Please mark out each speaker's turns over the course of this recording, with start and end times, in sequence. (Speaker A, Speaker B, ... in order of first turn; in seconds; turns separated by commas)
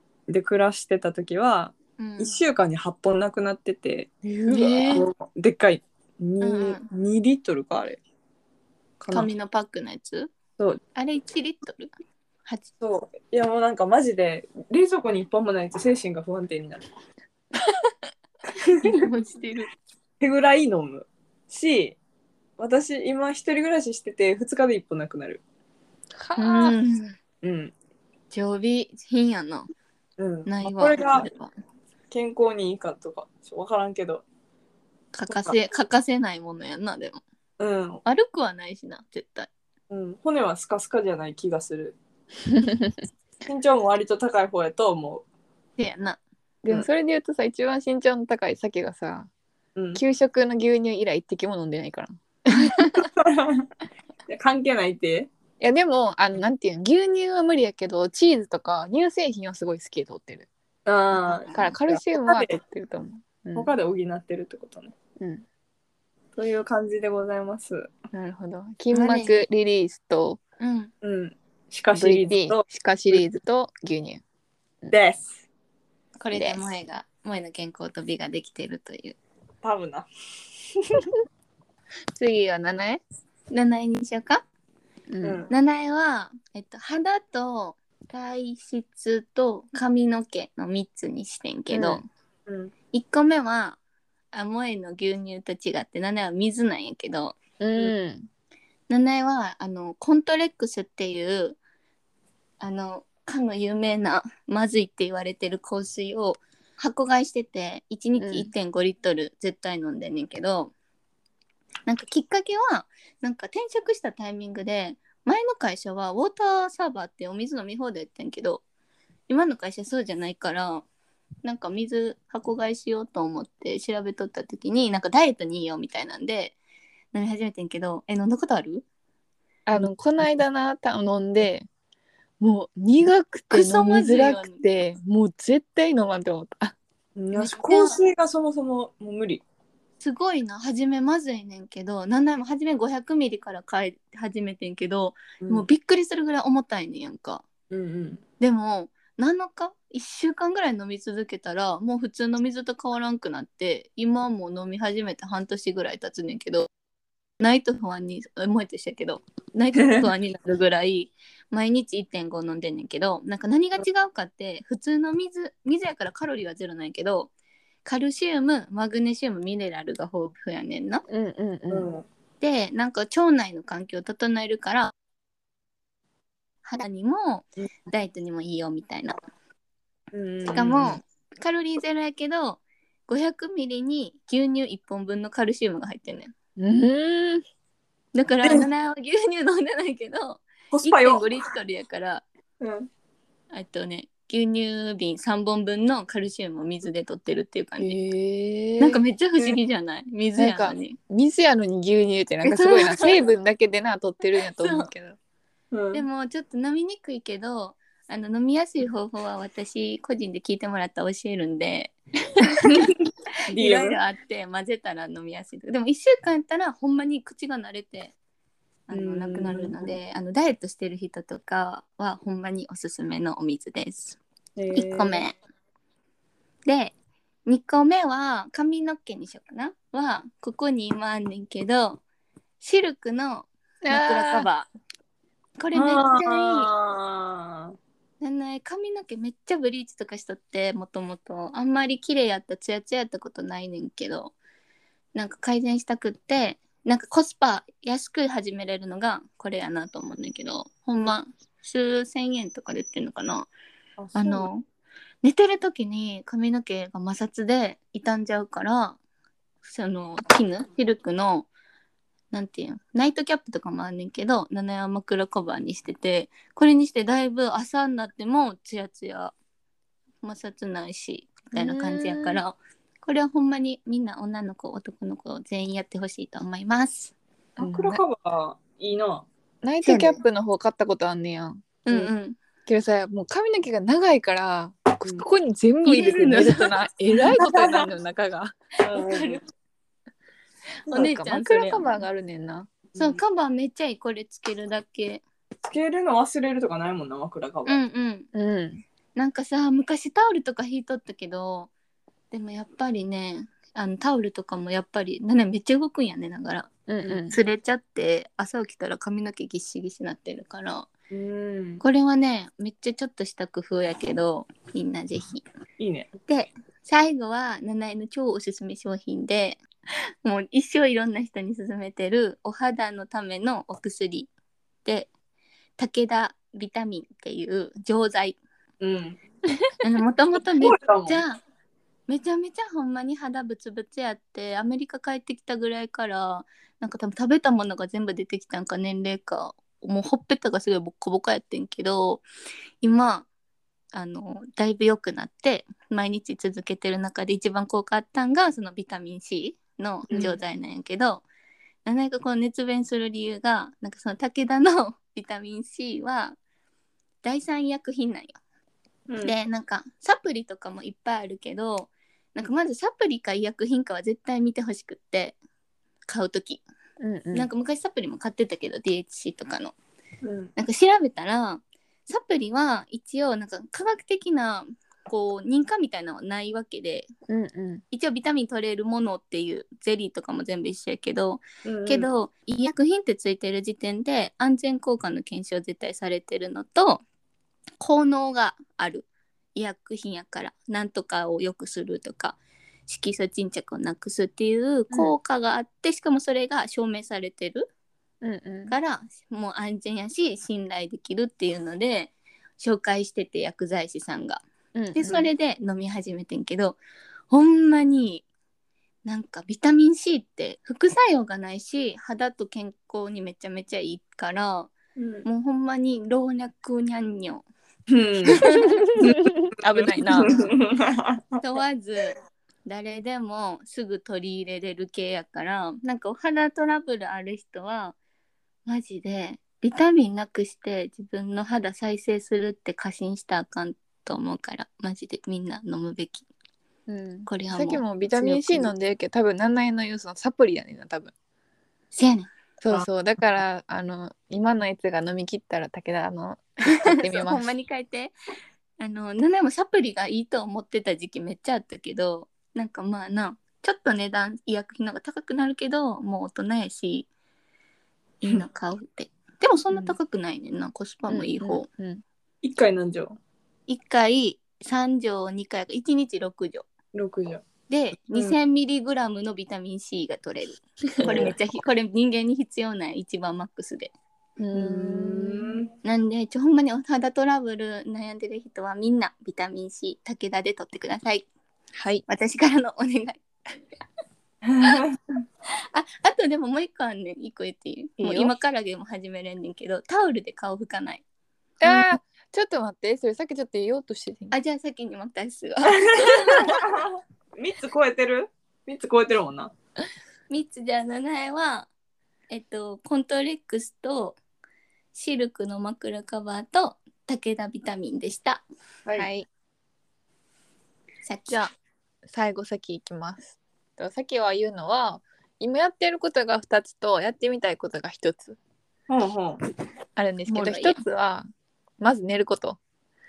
Speaker A: 0.3-8.0, Speaker B: 2.0-2.4, Speaker C: 4.2-5.1, Speaker B: 4.5-5.0, Speaker B: 6.4-6.8, Speaker A: 9.0-9.3, Speaker B: 9.1-10.3, Speaker B: 10.9-11.9, Speaker A: 12.8-16.8, Speaker A: 18.6-19.0, Speaker B: 18.7-19.7, Speaker A: 20.2-22.0, Speaker A: 22.6-25.4, Speaker C: 26.2-26.8, Speaker B: 26.4-27.2, Speaker A: 27.4-27.7, Speaker B: 28.3-29.7, Speaker A: 30.2-31.3, Speaker B: 30.5-31.5, Speaker A: 32.1-34.2, Speaker B: 35.1-37.2, Speaker A: 35.3-35.5, Speaker A: 37.6-38.0, Speaker B: 38.0-39.5, Speaker A: 39.9-42.0, Speaker C: 42.5-43.0, Speaker A: 43.5-45.2, Speaker B: 45.8-46.2, Speaker C: 46.6-49.3, Speaker A: 49.8-50.0, Speaker C: 50.0-52.9, Speaker A: 53.2-53.7, Speaker A: 54.3-55.3, Speaker C: 55.6-60.5, Speaker A: 60.9-62.5, Speaker C: 61.5-63.7, Speaker A: 63.5-64.9, Speaker C: 65.2-65.5, Speaker A: 66.4-67.9, Speaker C: 68.1-70.4, Speaker B: 68.9-69.5, Speaker B: 70.6-70.9, Speaker A: 71.0-73.2, Speaker C: 71.9-74.2, Speaker A: 74.9-75.4, Speaker B: 76.2-79.2, Speaker C: 76.3-76.7, Speaker A: 79.6-80.1, Speaker A: 80.8-81.1, Speaker C: 82.2-83.0, Speaker B: 83.5-84.5, Speaker C: 85.1-85.4, Speaker A: 85.2-85.5, Speaker B: 85.5-92.0, Speaker C: 91.7-92.0, Speaker A: 92.5-92.7, Speaker B: 92.9-93.8, Speaker B: 94.3-97.4, Speaker C: 97.6-98.3, Speaker B: 98.9-101.6, Speaker B: 102.6-110.7, Speaker C: 108.2-108.5, Speaker B: 111.9-118.6, Speaker B: 119.3-120.9, Speaker B: 121.4-126.6, Speaker B: 127.1-128.8, Speaker C: 129.7-131.7, Speaker C: 132.4-136.8, Speaker B: 133.5-134.6, Speaker A: 137.2-139.4, Speaker B: 137.3-138.0, Speaker B: 140.0-147.4, Speaker A: 145.4-145.7, Speaker A: 147.7-148.2, Speaker B: 148.4-156.7, Speaker B: 157.4-167.3, Speaker B: 167.8-171.1, Speaker C: 171.1-171.9, Speaker A: 171.7-172.1, Speaker B: 172.4-174.9, Speaker B: 176.7-179.2, Speaker A: 180.1-181.0, Speaker B: 180.5-186.3, Speaker C: 186.6-187.4, Speaker B: 188.1-192.2, Speaker A: 190.7-191.4, Speaker A: 192.6-192.9, Speaker B: 193.5-198.0, Speaker C: 197.8-199.0, Speaker B: 198.8-201.0, Speaker C: 200.4-205.2, Speaker B: 202.4-203.3, Speaker B: 204.6-204.9, Speaker A: 205.7-206.1, Speaker B: 205.9-212.6, Speaker A: 212.6-214.0, Speaker B: 213.5-218.1, Speaker B: 218.9-224.2, Speaker A: 218.9-219.9, Speaker A: 224.6-225.2, Speaker B: 224.7-225.3, Speaker B: 226.7-226.9, Speaker B: 227.5-232.0, Speaker B: 232.6-234.7, Speaker C: 233.8-234.5, Speaker B: 235.6-236.7, Speaker A: 235.7-237.8, Speaker B: 238.2-244.3, Speaker B: 245.2-253.5, Speaker A: 254.0-254.5, Speaker B: 254.2-254.6, Speaker B: 255.2-259.0, Speaker B: 259.6-261.5, Speaker B: 262.3-269.3, Speaker B: 270.2-277.1, Speaker C: 271.5-272.4, Speaker C: 277.6-278.0, Speaker A: 277.6-279.3, Speaker C: 279.6-281.9, Speaker B: 279.8-280.2, Speaker B: 281.9-282.4, Speaker C: 282.7-288.6, Speaker B: 285.8-286.8, Speaker A: 287.4-287.9, Speaker A: 288.8-289.4, Speaker B: 288.8-289.4, Speaker B: 290.9-292.0, Speaker C: 290.9-292.7, Speaker A: 292.9-293.2, Speaker B: 293.0-295.2, Speaker A: 295.6-297.8, Speaker B: 297.7-298.3, Speaker C: 298.3-298.8, Speaker B: 299.2-301.7, Speaker B: 302.3-306.7, Speaker C: 306.9-307.4, Speaker B: 307.3-310.9, Speaker A: 311.1-311.8, Speaker B: 311.8-315.4, Speaker A: 315.8-316.1, Speaker B: 316.3-319.6, Speaker B: 320.2-324.3, Speaker B: 324.9-325.1, Speaker B: 325.8-328.4, Speaker A: 328.8-329.2, Speaker B: 329.8-331.4, Speaker A: 330.6-331.2, Speaker B: 332.1-342.2, Speaker B: 342.8-343.3, Speaker B: 343.9-351.2, Speaker A: 350.1-350.4, Speaker B: 351.9-356.4, Speaker B: 357.2-358.4, Speaker A: 359.1-359.4, Speaker B: 359.2-365.4, Speaker B: 366.1-366.6, Speaker C: 367.0-367.5, Speaker B: 367.3-369.8, Speaker A: 370.2-370.5, Speaker B: 370.6-377.1, Speaker C: 377.3-377.8, Speaker B: 377.9-387.0, Speaker A: 381.6-382.1, Speaker B: 387.8-397.7, Speaker C: 398.2-398.7, Speaker B: 398.7-406.8, Speaker C: 404.8-405.3, Speaker B: 407.3-408.3, Speaker B: 409.1-417.5, Speaker A: 415.0-415.3, Speaker A: 417.9-418.4, Speaker B: 418.3-418.9, Speaker C: 418.4-420.4, Speaker A: 419.8-421.4, Speaker B: 420.2-420.5, Speaker B: 421.4-428.0, Speaker B: 428.7-436.3, Speaker C: 436.9-441.1, Speaker B: 437.3-438.7, Speaker B: 441.9-442.3, Speaker C: 442.6-447.5, Speaker B: 446.7-448.1, Speaker B: 448.8-457.1, Speaker B: 458.2-461.7, Speaker C: 461.1-462.0, Speaker A: 462.4-463.2, Speaker B: 463.7-466.7, Speaker A: 466.9-467.4, Speaker B: 467.7-473.9, Speaker C: 471.0-471.4, Speaker A: 471.0-471.4, Speaker C: 474.4-475.6, Speaker A: 474.5-475.7, Speaker B: 475.8-481.3, Speaker C: 481.8-482.0, Speaker B: 482.1-483.2, Speaker A: 484.4-485.0, Speaker B: 485.7-491.0, Speaker C: 488.0-488.3, Speaker C: 491.6-494.4, Speaker B: 494.3-496.6, Speaker A: 495.9-499.5, Speaker B: 500.3-501.7, Speaker B: 502.3-504.2, Speaker B: 504.9-508.4, Speaker B: 509.0-509.3, Speaker B: 511.1-511.5, Speaker C: 512.1-518.4, Speaker A: 518.9-519.4, Speaker C: 520.0-521.3, Speaker B: 520.3-520.8, Speaker C: 521.8-522.6